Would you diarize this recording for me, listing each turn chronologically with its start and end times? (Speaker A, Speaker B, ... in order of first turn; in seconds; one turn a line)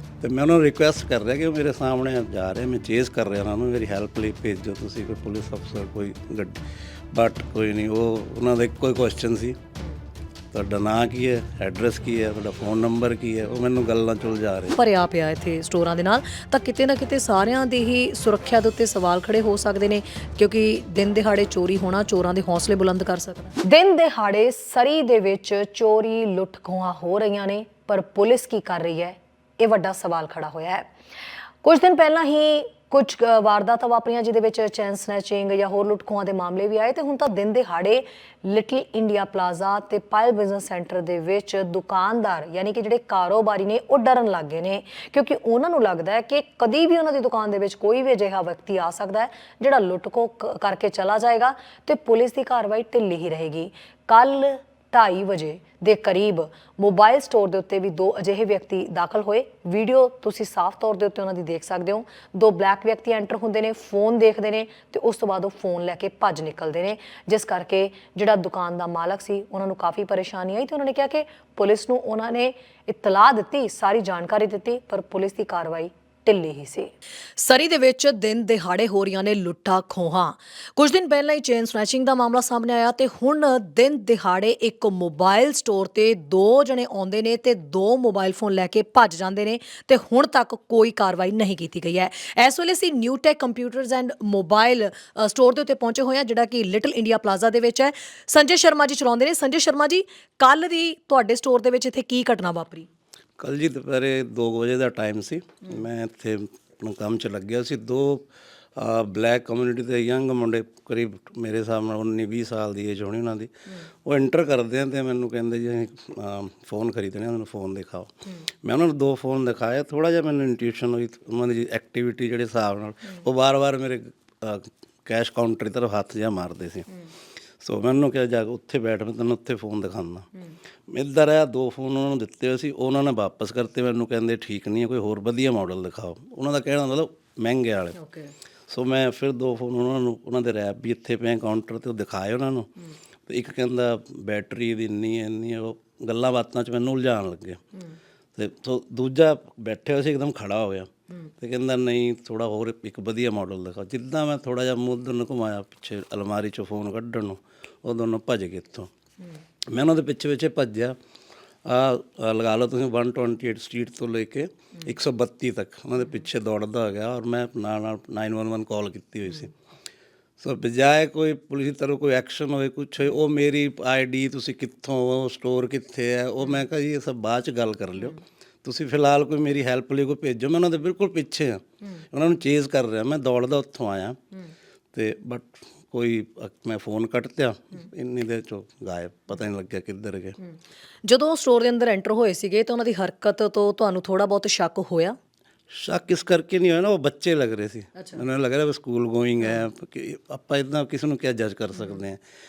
Speaker A: 0.2-6.6
Speaker A: 7.1-9.6
Speaker A: 10.5-14.8
Speaker B: 14.8-30.9
Speaker B: 31.6-102.9
Speaker A: 103.4-113.5
Speaker A: 114.0-126.9
Speaker A: 127.6-130.3
Speaker A: 130.9-138.0
Speaker B: 138.0-138.3
Speaker A: 138.7-142.7
Speaker A: 143.3-147.6
Speaker A: 148.4-158.9
Speaker A: 159.7-161.0
Speaker A: 161.7-169.5
Speaker A: 170.4-184.2
Speaker A: 184.9-190.4
Speaker B: 191.1-195.2
Speaker A: 195.7-202.2
Speaker B: 198.0-198.2